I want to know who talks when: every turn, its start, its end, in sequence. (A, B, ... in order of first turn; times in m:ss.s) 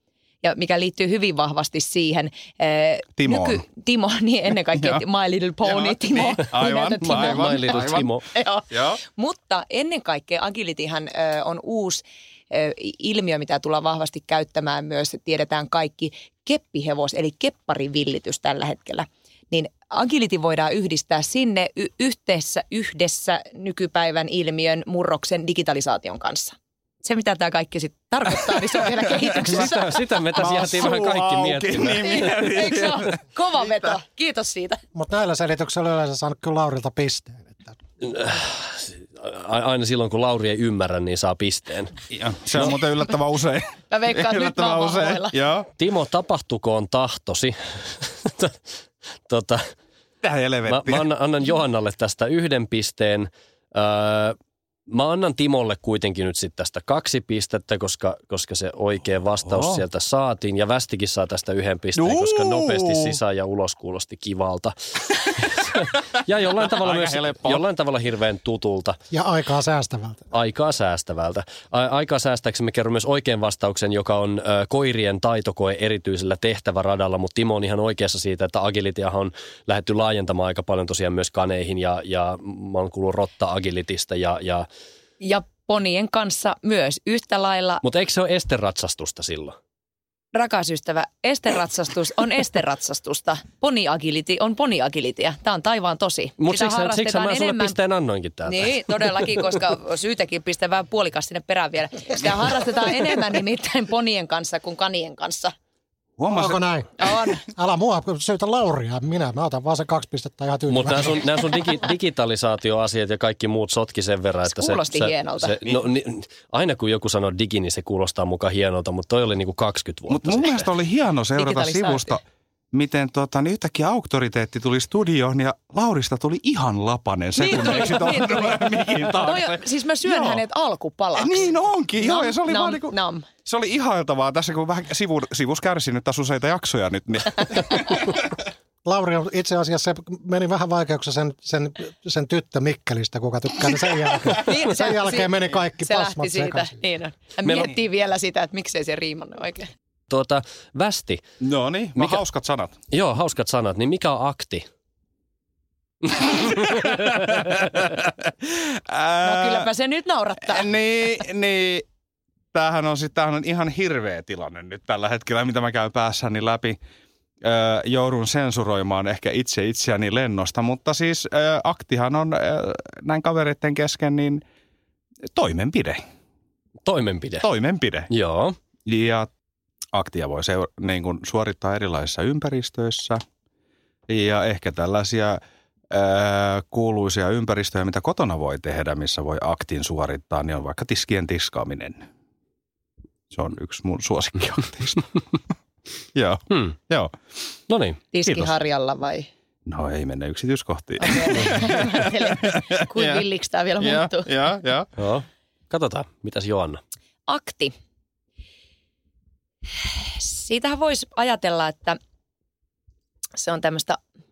0:00.4-0:30.0 A
0:03.2-0:03.6 B
0:04.7-0:05.0 B
0:05.6-0:08.1 B
0:07.0-0:08.3 C
0:08.7-0:09.0 B
0:29.5-0:32.2 C
0:30.4-0:33.9 B
0:32.0-0:34.8 A
0:35.0-0:37.8 D
0:38.0-0:41.9 C
0:42.1-0:45.7 B
0:43.9-0:45.3 A
0:45.8-0:48.6 C
0:49.3-0:49.6 C
0:50.2-0:51.1 B
0:50.7-0:54.4 C
0:54.9-1:09.0 C
0:59.4-0:59.8 B
1:02.0-1:03.2 B
1:06.6-1:07.6 B
1:09.1-1:10.3 D
1:10.3-1:24.7 C
1:25.2-1:27.8 A
1:27.8-1:29.6 C
1:30.3-1:37.8 A
1:36.4-1:39.0 C
1:38.4-1:45.5 A
1:46.2-1:46.6 B
1:46.3-1:51.4 D
1:47.0-1:47.4 A
1:50.7-2:00.7 C
1:54.5-1:55.6 A
2:00.1-2:02.2 B
2:01.4-2:02.2 A
2:02.7-2:10.4 B
2:07.4-2:13.3 A
2:11.2-2:18.1 B
2:18.8-2:26.8 D
2:24.4-2:29.7 A
2:27.5-2:27.7 C
2:30.1-2:31.2 C
2:31.4-2:32.8 B
2:32.9-2:34.6 C
2:36.2-2:39.6 B
2:39.2-2:40.7 A
2:40.5-2:41.8 B
2:42.5-2:46.8 B
2:47.4-2:54.4 B
2:55.3-2:56.0 B
2:56.9-2:57.5 C
2:57.4-2:58.1 B
2:58.1-2:58.6 C
2:58.9-2:59.3 B
2:59.9-3:03.2 B
3:04.1-3:05.4 B
3:05.9-3:12.1 B
3:13.3-3:15.4 B
3:16.2-3:17.1 B
3:17.7-3:18.0 C
3:18.1-3:19.3 A
3:18.2-3:18.6 B
3:19.7-3:23.2 B
3:21.0-3:24.3 A
3:23.8-3:24.9 B
3:25.0-3:26.8 C
3:27.3-3:27.7 A
3:30.0-3:32.0 A
3:33.4-3:34.0 A